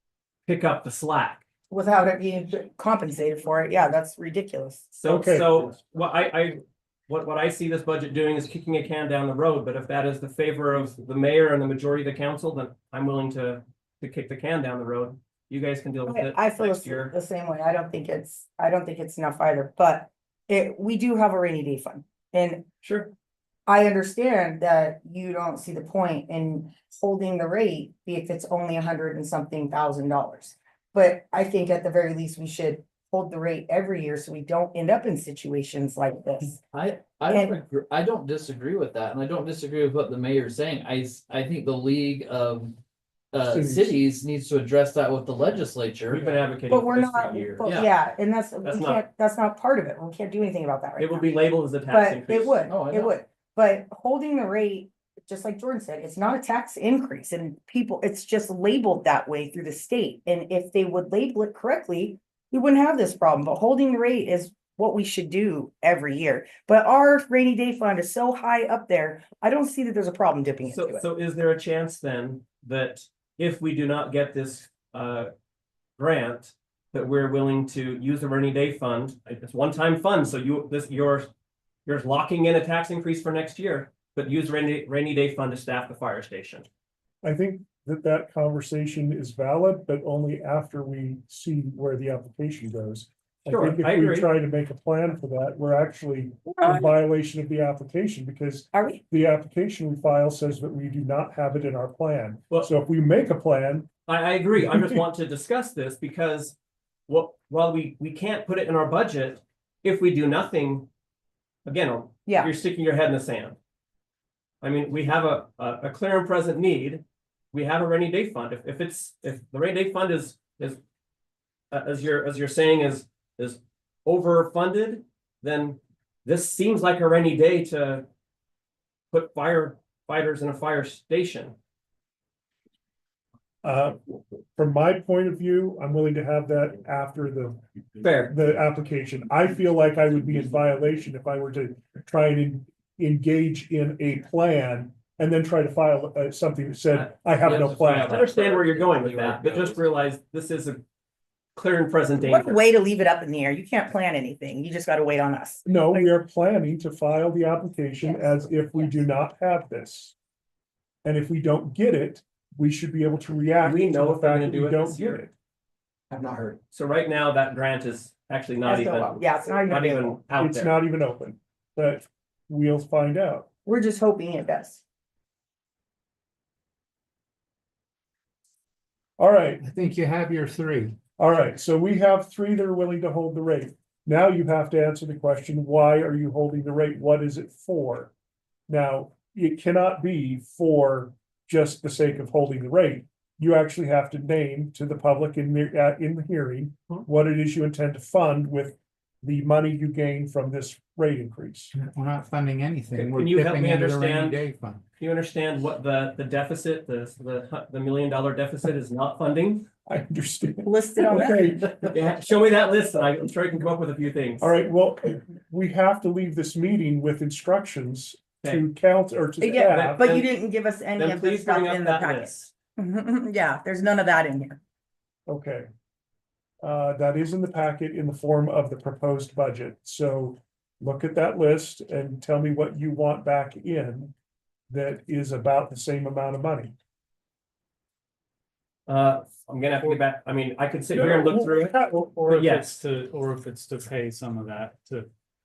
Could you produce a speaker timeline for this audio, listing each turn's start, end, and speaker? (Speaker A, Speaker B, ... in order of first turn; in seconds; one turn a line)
Speaker A: 0.5-1.4
Speaker B: 1.7-4.9
Speaker A: 4.9-17.1
Speaker C: 5.0-5.7
Speaker B: 16.1-22.7
Speaker A: 22.8-23.1
Speaker B: 23.7-36.6
Speaker D: 36.7-42.8
Speaker B: 37.3-37.6
Speaker D: 43.3-46.5
Speaker C: 43.5-44.0
Speaker A: 46.1-47.6
Speaker B: 46.7-71.0
Speaker D: 47.6-47.9
Speaker A: 48.6-49.0
Speaker A: 51.0-52.6
Speaker D: 52.7-53.1
Speaker A: 70.7-75.3
Speaker A: 76.0-81.3
Speaker A: 81.9-86.7
Speaker C: 87.2-103.9
Speaker A: 93.5-94.3
Speaker B: 96.5-96.9
Speaker B: 98.7-99.0
Speaker A: 104.1-106.6
Speaker C: 104.6-105.0
Speaker A: 107.1-110.9
Speaker A: 111.7-113.6
Speaker A: 114.6-120.8
Speaker A: 121.7-128.1
Speaker A: 129.1-131.6
Speaker C: 133.6-137.6
Speaker A: 138.0-138.3
Speaker C: 138.3-148.3
Speaker D: 147.5-149.8
Speaker A: 148.0-150.8
Speaker A: 151.6-152.6
Speaker B: 152.2-156.1
Speaker C: 155.7-160.2
Speaker B: 158.0-159.0
Speaker C: 161.0-165.3
Speaker A: 163.6-165.2
Speaker B: 166.1-166.4
Speaker A: 166.7-170.8
Speaker B: 168.6-170.2
Speaker C: 170.4-173.5
Speaker B: 173.7-174.8
Speaker C: 179.2-179.6
Speaker E: 179.6-181.0
Speaker C: 181.2-188.1
Speaker C: 188.7-201.7
Speaker E: 201.7-204.8
Speaker A: 202.9-204.4
Speaker A: 205.0-209.7
Speaker C: 209.9-211.7
Speaker B: 210.6-211.9
Speaker A: 211.9-214.5
Speaker C: 214.4-220.1
Speaker B: 219.4-224.6
Speaker A: 219.6-220.3
Speaker A: 221.0-222.5
Speaker C: 225.3-225.7
Speaker C: 226.6-234.1
Speaker C: 234.7-236.7
Speaker A: 238.9-241.8
Speaker C: 240.9-242.2
Speaker F: 242.1-245.1
Speaker A: 242.3-242.8